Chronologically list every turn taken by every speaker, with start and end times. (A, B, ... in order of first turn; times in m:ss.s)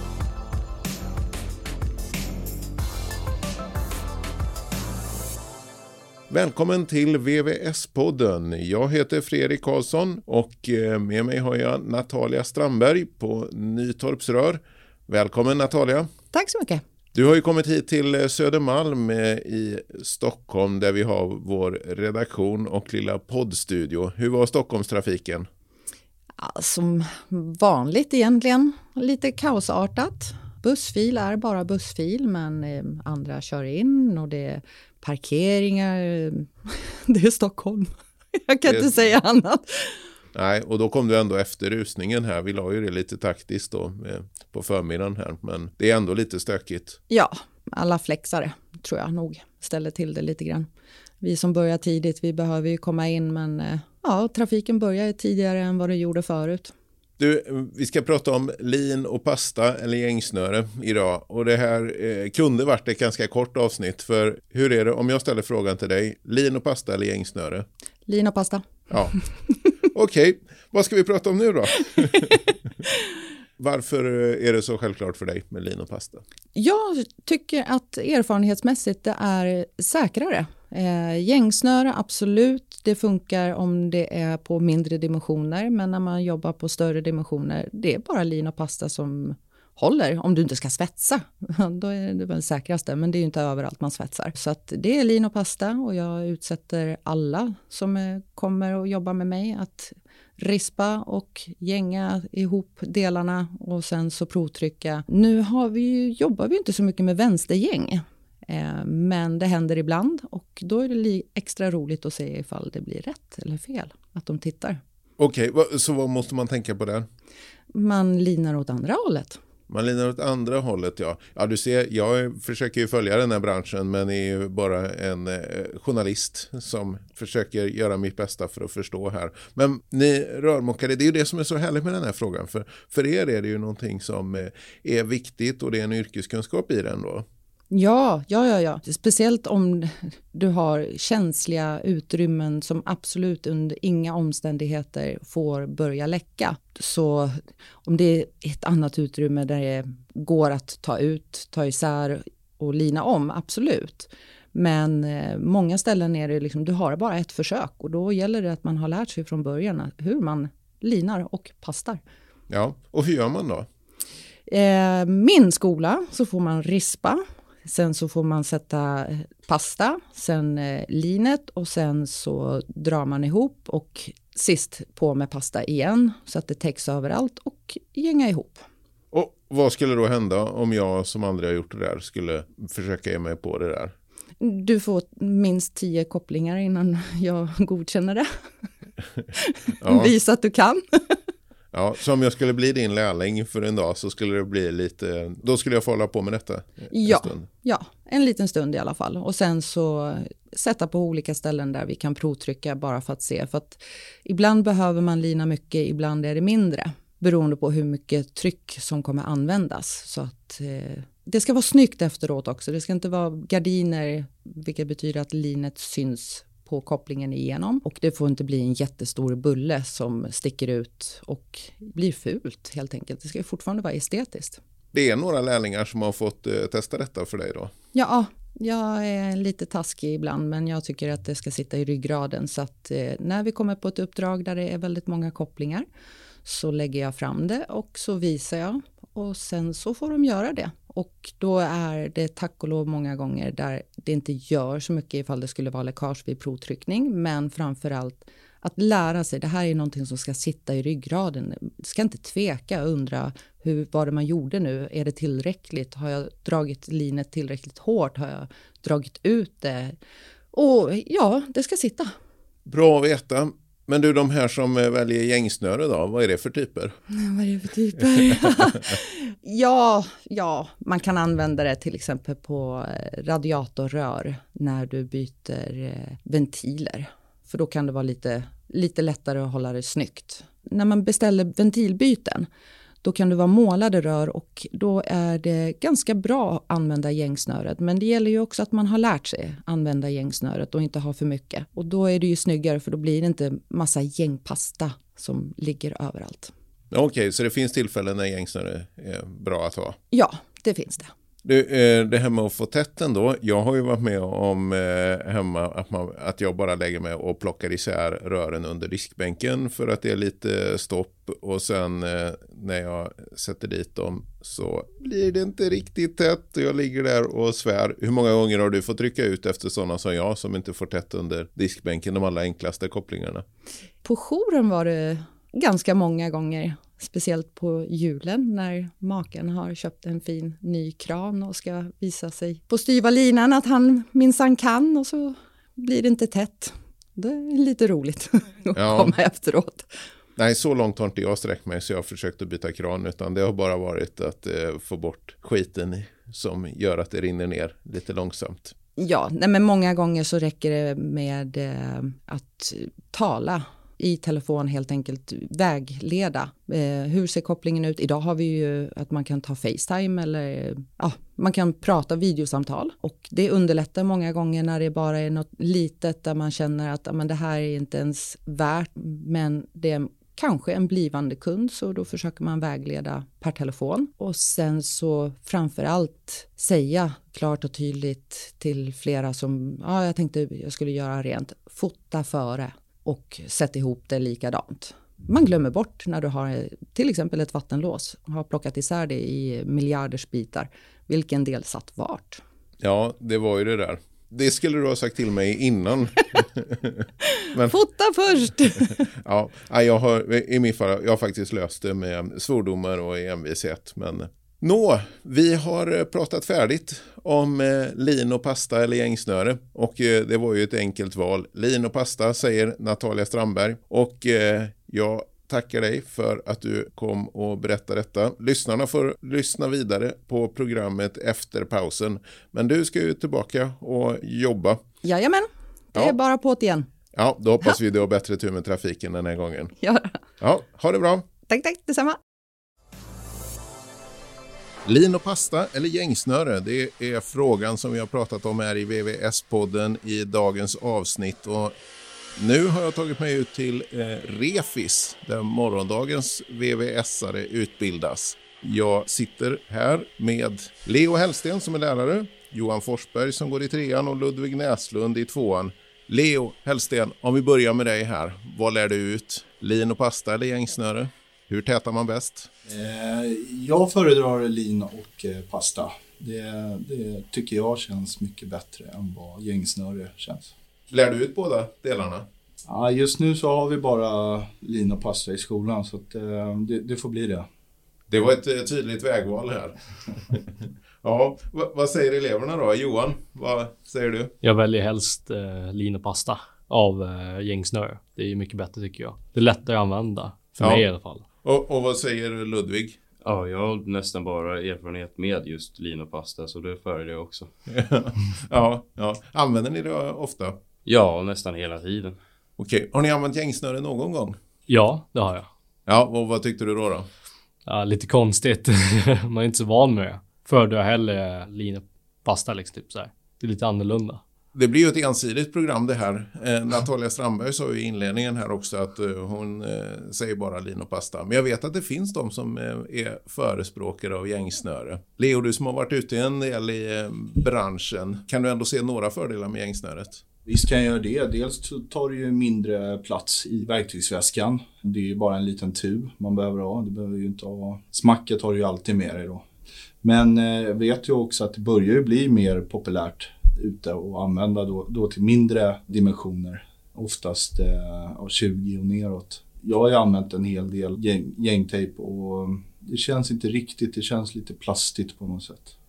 0:06.3-0:16.1 A
0:16.3-0:16.8 B
0:17.1-0:25.5 A
0:26.4-0:40.1 B
0:38.7-0:39.0 A
0:40.4-0:47.0 A
0:47.1-0:50.7 B
0:51.2-0:56.7 B
0:57.2-1:07.7 A
1:08.1-1:08.6 B
1:08.9-1:09.2 A
1:09.9-1:12.4 A
1:13.6-1:16.2 A
1:16.6-1:54.8 B
1:55.2-1:57.1 A
1:57.7-1:59.4 B
1:59.7-2:17.3 A
2:17.7-2:42.0 B
2:42.5-2:43.7 A
2:44.5-2:58.6 B
2:59.1-3:03.9 A
3:04.4-3:08.3 B
3:09.3-3:11.2 B
3:09.8-3:10.1 A
3:11.7-3:17.5 A
3:16.9-3:44.6 B
3:44.9-3:47.7 A
3:47.9-3:55.9 B
3:56.4-4:20.0 B
4:20.5-4:22.1 B
4:22.7-4:27.0 A
4:27.1-4:42.5 B
4:43.0-4:56.5 B
4:56.9-5:00.0 A
5:00.1-5:01.1 B
5:01.4-5:23.4 A
5:24.0-5:39.9 B
5:38.8-5:39.1 A
5:40.4-5:48.8 A
5:49.0-6:32.4 B
6:32.8-6:37.7 A
6:37.3-6:39.1 B
6:39.1-7:04.8 A
7:05.0-7:06.9 B
7:07.1-7:09.7 A
7:09.8-7:10.2 B
7:10.4-7:11.3 A
7:11.5-7:12.2 B
7:14.8-7:21.8 A
7:22.4-7:42.5 A
7:42.7-7:50.5 C
7:50.9-7:52.3 A
7:52.7-7:57.5 C
7:58.1-8:04.3 A
8:04.4-8:11.2 D
8:10.6-8:10.9 A
8:11.4-8:13.0 A
8:13.2-8:17.5 E
8:17.7-8:20.6 A
8:20.8-8:22.2 E
8:22.6-8:24.4 A
8:24.7-8:25.5 D
8:25.9-8:27.1 A
8:27.7-8:34.2 D
8:34.5-8:50.2 A
8:50.5-8:59.4 C
9:00.0-9:15.8 C